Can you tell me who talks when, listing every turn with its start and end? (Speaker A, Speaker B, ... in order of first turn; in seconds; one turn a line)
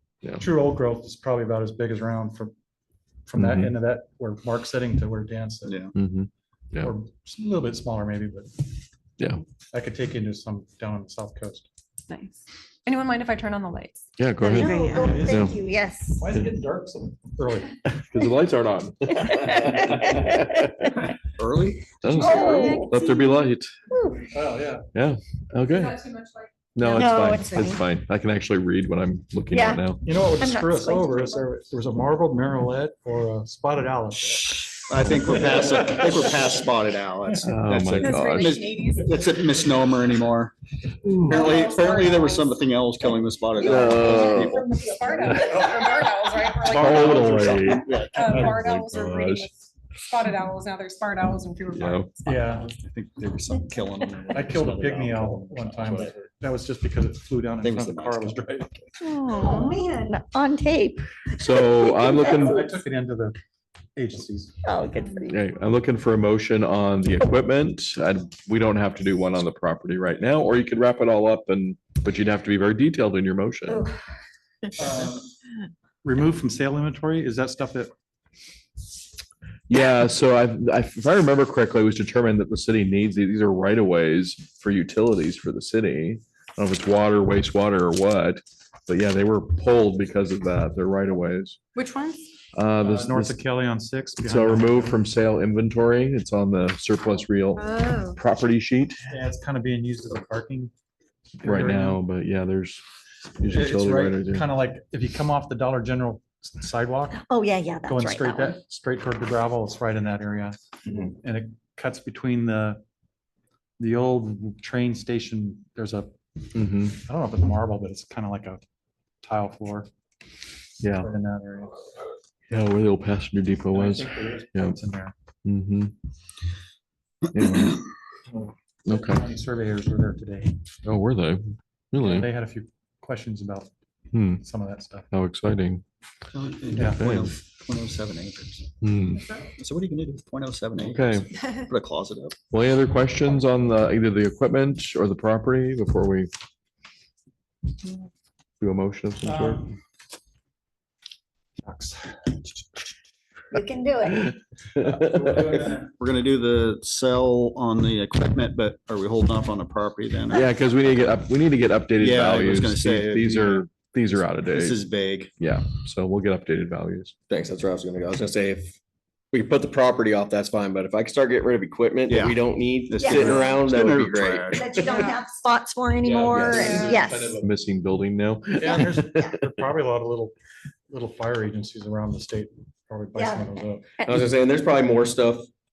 Speaker A: 0.4-2.5
Speaker A: 3.2-5.8
Speaker B: 3.4-3.7
Speaker C: 5.6-5.9
Speaker B: 5.9-6.9
Speaker A: 6.8-8.7
Speaker A: 9.7-11.7
Speaker D: 12.1-15.1
Speaker B: 14.2-15.5
Speaker E: 14.4-16.3
Speaker A: 14.9-15.5
Speaker A: 16.1-17.7
Speaker B: 17.9-20.9
Speaker E: 19.3-20.5
Speaker C: 21.4-22.0
Speaker B: 21.9-23.7
Speaker D: 22.1-23.5
Speaker E: 22.1-22.9
Speaker E: 23.9-24.2
Speaker A: 24.3-24.9
Speaker B: 24.9-26.0
Speaker D: 25.7-26.5
Speaker B: 26.7-30.0
Speaker E: 26.8-27.8
Speaker E: 29.5-29.8
Speaker A: 30.0-34.7
Speaker E: 30.4-31.4
Speaker C: 34.8-40.5
Speaker B: 37.4-38.6
Speaker D: 38.0-39.2
Speaker B: 41.0-41.5
Speaker D: 41.2-42.5
Speaker C: 41.3-44.6
Speaker B: 43.6-44.6
Speaker D: 43.6-47.3
Speaker B: 45.2-45.7
Speaker A: 46.6-48.4
Speaker B: 46.6-49.5
Speaker C: 46.9-48.3
Speaker D: 48.1-52.5
Speaker B: 51.7-52.1
Speaker A: 52.2-52.7
Speaker C: 52.6-56.2
Speaker A: 54.3-58.7
Speaker C: 57.6-58.6
Speaker E: 59.0-62.5
Speaker D: 59.2-59.8
Speaker B: 61.4-62.7
Speaker A: 62.3-63.4
Speaker A: 64.0-64.5
Speaker E: 64.6-65.4
Speaker B: 65.3-73.8
Speaker E: 73.7-74.0
Speaker A: 74.8-75.2
Speaker A: 76.0-77.9
Speaker B: 79.7-91.6
Speaker D: 91.7-92.2
Speaker B: 92.5-93.4
Speaker A: 92.8-95.0
Speaker B: 94.2-99.0
Speaker D: 97.6-98.2
Speaker A: 99.1-100.7
Speaker A: 101.4-102.0
Speaker B: 101.4-102.8
Speaker B: 103.3-104.5
Speaker A: 103.5-107.2
Speaker E: 107.2-108.6
Speaker A: 107.9-112.8
Speaker A: 113.8-116.1
Speaker B: 116.5-117.0
Speaker A: 116.9-118.6
Speaker A: 119.2-119.9
Speaker B: 120.8-121.1
Speaker A: 121.0-121.7
Speaker B: 122.5-124.8
Speaker A: 123.7-125.1
Speaker B: 125.4-125.9
Speaker B: 127.3-127.8
Speaker A: 128.3-130.6
Speaker B: 128.9-129.3
Speaker B: 130.8-132.3
Speaker A: 132.0-133.7
Speaker B: 134.1-134.4
Speaker A: 134.4-135.1
Speaker B: 135.1-135.8
Speaker C: 136.3-138.7
Speaker A: 136.7-137.1
Speaker B: 136.9-137.3
Speaker B: 138.8-139.2
Speaker C: 139.4-142.3
Speaker B: 140.8-141.2
Speaker B: 142.5-146.3
Speaker B: 148.6-149.7
Speaker A: 149.2-149.7
Speaker A: 151.6-152.5
Speaker E: 153.5-154.3
Speaker B: 154.1-155.3
Speaker A: 154.8-155.9
Speaker C: 155.9-160.4
Speaker B: 160.3-164.8
Speaker C: 162.0-163.7
Speaker C: 164.5-165.3
Speaker B: 165.4-167.1
Speaker F: 167.3-168.8
Speaker F: 169.3-174.8
Speaker C: 172.1-174.8
Speaker E: 172.9-173.6
Speaker E: 174.5-177.4
Speaker D: 174.8-175.2
Speaker F: 176.1-177.4
Speaker C: 176.5-176.9
Speaker B: 177.4-179.3
Speaker A: 178.6-180.3
Speaker A: 180.9-184.0
Speaker E: 183.2-184.3
Speaker F: 184.1-185.5